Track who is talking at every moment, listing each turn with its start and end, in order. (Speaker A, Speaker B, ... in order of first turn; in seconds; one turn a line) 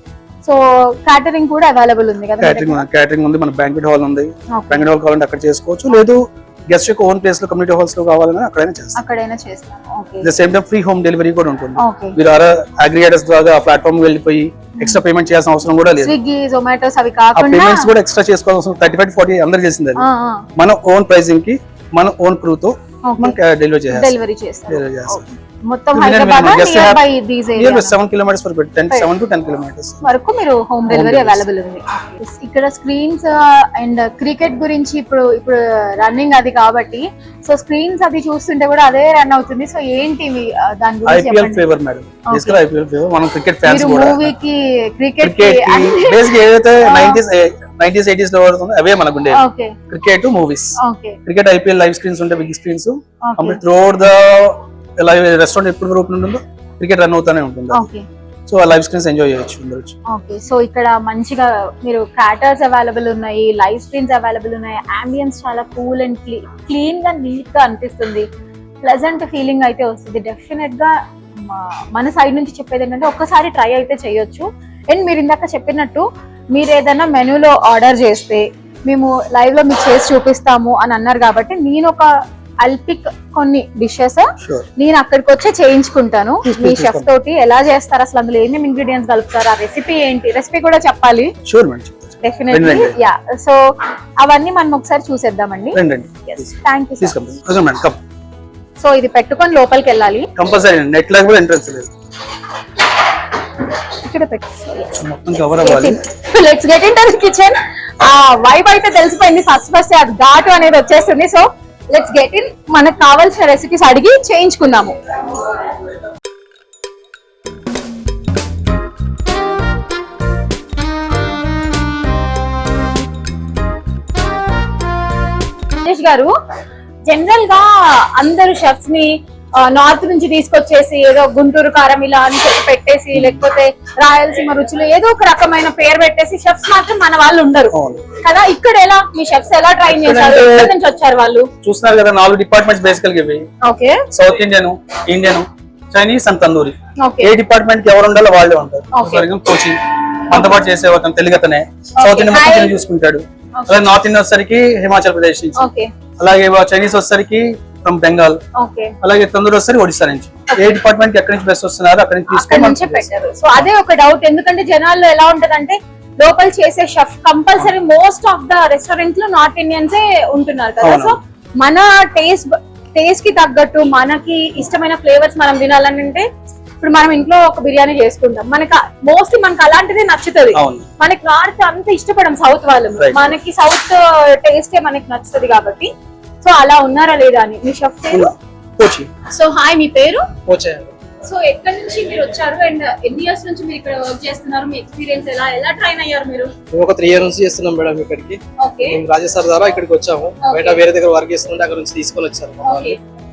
Speaker A: 0.4-2.8
Speaker B: 2.4-9.0
Speaker A: 4.5-4.8
Speaker A: 8.9-10.3
Speaker B: 10.2-16.1
Speaker A: 11.8-12.2
Speaker A: 16.0-17.9
Speaker B: 17.3-24.1
Speaker A: 19.9-20.5
Speaker A: 23.0-23.4
Speaker A: 23.9-27.9
Speaker B: 24.7-25.3
Speaker B: 25.9-30.1
Speaker A: 30.0-41.6
Speaker B: 30.9-31.4
Speaker B: 41.0-44.3
Speaker A: 42.3-42.6
Speaker A: 43.6-47.2
Speaker B: 45.2-57.9
Speaker A: 49.3-49.8
Speaker A: 50.8-51.2
Speaker A: 53.2-53.6
Speaker A: 57.7-58.0
Speaker B: 58.5-60.0
Speaker A: 60.1-68.3
Speaker A: 68.8-91.3
Speaker B: 84.4-84.7
Speaker B: 86.4-87.1
Speaker B: 91.4-93.0
Speaker A: 92.2-97.2
Speaker B: 95.7-98.0
Speaker A: 98.8-100.3
Speaker B: 100.3-101.9
Speaker A: 104.0-104.9
Speaker B: 105.0-106.0
Speaker A: 105.6-115.0
Speaker A: 125.8-126.3
Speaker A: 127.1-141.5
Speaker B: 133.1-133.4
Speaker B: 137.7-138.1
Speaker B: 139.9-140.7
Speaker B: 141.6-143.5
Speaker A: 143.6-144.0
Speaker B: 144.1-158.4
Speaker A: 147.0-147.3
Speaker A: 148.9-149.3
Speaker A: 152.0-152.8
Speaker A: 153.6-153.9
Speaker A: 155.6-155.9
Speaker A: 158.6-158.9
Speaker B: 159.0-163.7
Speaker A: 162.3-176.3
Speaker B: 170.8-171.2
Speaker A: 176.8-185.9
Speaker B: 180.5-180.9
Speaker B: 183.0-183.3
Speaker A: 186.4-188.3
Speaker B: 188.1-189.1
Speaker A: 189.3-190.3
Speaker C: 190.4-190.9
Speaker A: 191.2-196.5
Speaker C: 196.7-203.0
Speaker A: 198.6-199.0
Speaker A: 200.4-200.8
Speaker A: 202.6-203.0